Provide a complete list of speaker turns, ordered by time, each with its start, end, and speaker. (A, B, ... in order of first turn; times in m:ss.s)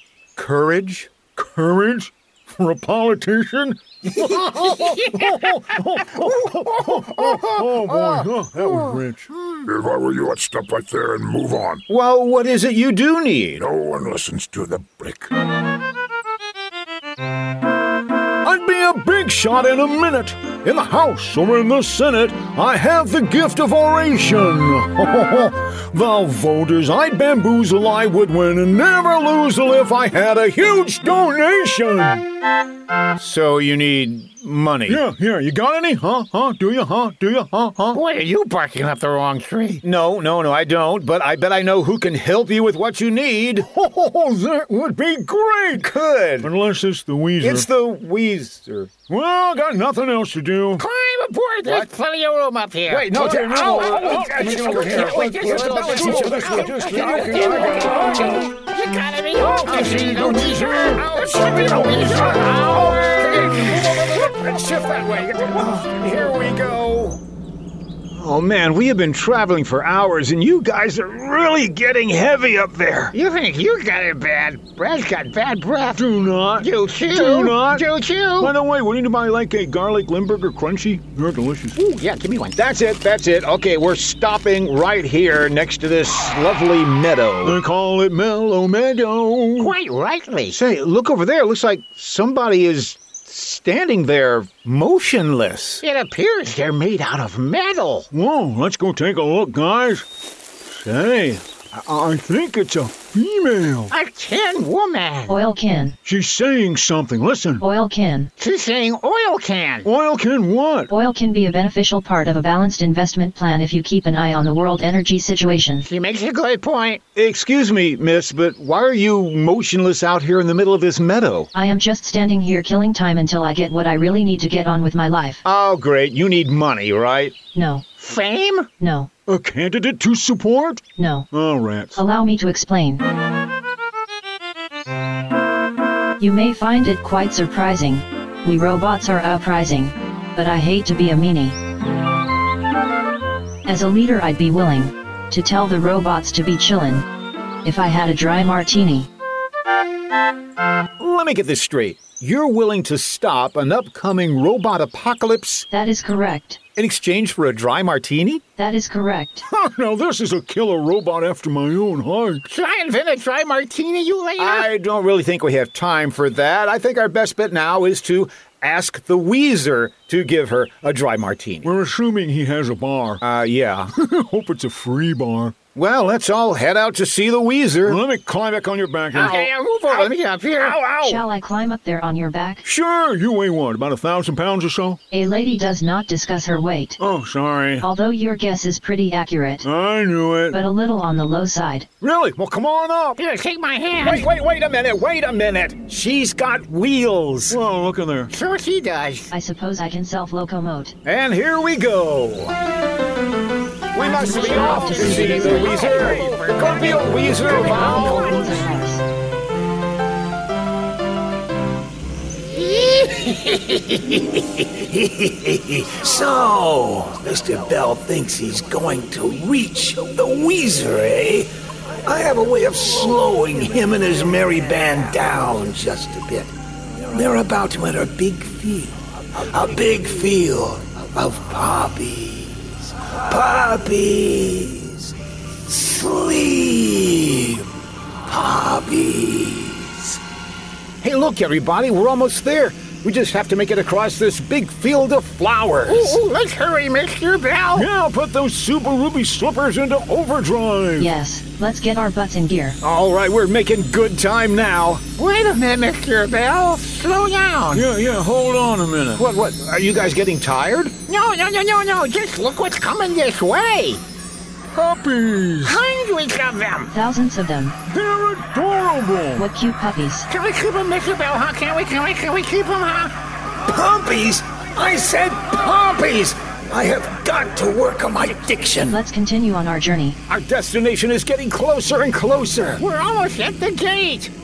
0:00.4-0:01.2 A
0:01.3-0:09.3 B
0:04.5-0:05.5 C
0:06.8-0:09.0 A
0:09.6-0:11.8 D
0:11.9-0:13.7 A
0:13.6-0:14.8 D
0:14.4-0:15.2 E
0:18.4-0:32.2 B
0:33.2-0:35.0 A
0:34.9-0:37.9 B
0:37.9-0:39.8 C
0:39.8-0:43.7 A
0:43.6-0:45.9 B
0:45.7-0:46.5 A
0:46.4-0:47.7 B
0:47.4-0:48.9 A
0:49.1-0:50.8 B
0:50.8-1:05.6 C
0:52.9-0:58.4 A
0:53.0-0:58.4 B
0:59.4-1:01.0 B
0:59.6-1:07.2 A
1:08.1-1:13.1 A
1:13.1-1:18.5 C
1:15.9-1:17.8 B
1:18.4-1:21.8 B
1:21.8-1:22.6 C
1:22.6-1:27.6 A
1:27.4-1:29.7 B
1:29.6-1:30.6 C
1:30.5-1:35.8 A
1:35.8-1:38.1 C
1:38.1-1:40.0 B
1:40.6-1:43.9 B
1:43.9-1:45.4 C
1:45.3-1:46.0 F
1:46.0-1:47.6 B
1:47.6-1:48.3 F
1:48.4-1:49.9 C
1:49.8-1:50.9 B
1:50.9-1:55.8 F
1:55.8-1:57.0 C
1:57.1-2:01.5 A
2:01.5-2:05.4 F
2:05.4-2:07.4 A
2:07.5-2:07.8 F
2:08.0-2:08.7 C
2:08.8-2:09.1 F
2:09.3-2:12.0 B
2:11.0-2:11.3 F
2:12.0-2:13.0 F
2:16.2-2:21.6 F
2:23.6-2:27.0 F
2:27.6-2:29.1 F
2:31.0-2:35.7 A
2:35.7-2:36.6 F
2:36.8-2:38.4 A
2:38.6-2:39.4 F
2:39.5-2:42.4 B
2:42.5-2:44.7 C
2:44.4-2:51.7 A
2:51.6-2:53.2 B
2:53.2-2:53.9 A
2:54.0-2:55.5 B
2:55.7-2:58.0 A
2:57.8-2:59.5 B
2:59.1-3:00.8 C
2:59.1-3:01.2 A
3:01.0-3:02.6 F
3:02.6-3:05.0 B
3:05.1-3:07.0 F
3:07.0-3:07.8 B
3:07.8-3:09.6 F
3:09.6-3:10.6 B
3:10.5-3:11.9 F
3:12.0-3:13.2 B
3:13.2-3:14.2 C
3:14.0-3:17.6 A
3:17.5-3:18.3 B
3:18.3-3:19.3 C
3:19.3-3:20.9 F
3:21.0-3:22.6 A
3:23.9-3:28.5 A
3:24.0-3:25.8 F
3:24.1-3:28.6 C
3:24.7-3:26.2 B
3:27.4-3:29.0 F
3:32.5-3:34.0 C
3:34.6-3:41.5 E
3:42.0-3:46.5 E
3:47.1-3:55.1 E
3:55.7-3:57.7 E
3:58.3-4:00.2 E
4:01.0-4:06.2 A
4:05.9-4:07.9 C
4:07.7-4:11.1 B
4:11.0-4:12.8 F
4:12.8-4:15.0 A
4:15.2-4:17.9 C
4:17.7-4:19.2 B
4:19.2-4:20.9 A
4:21.1-4:24.0 C
4:24.7-4:25.8 B
4:25.6-4:26.9 C
4:26.9-4:27.8 F
4:27.9-4:29.4 B
4:29.4-4:30.3 F
4:30.3-4:33.1 C
4:33.7-4:39.0 E
4:38.9-4:40.2 F
4:40.3-4:42.8 A
4:42.8-4:44.3 C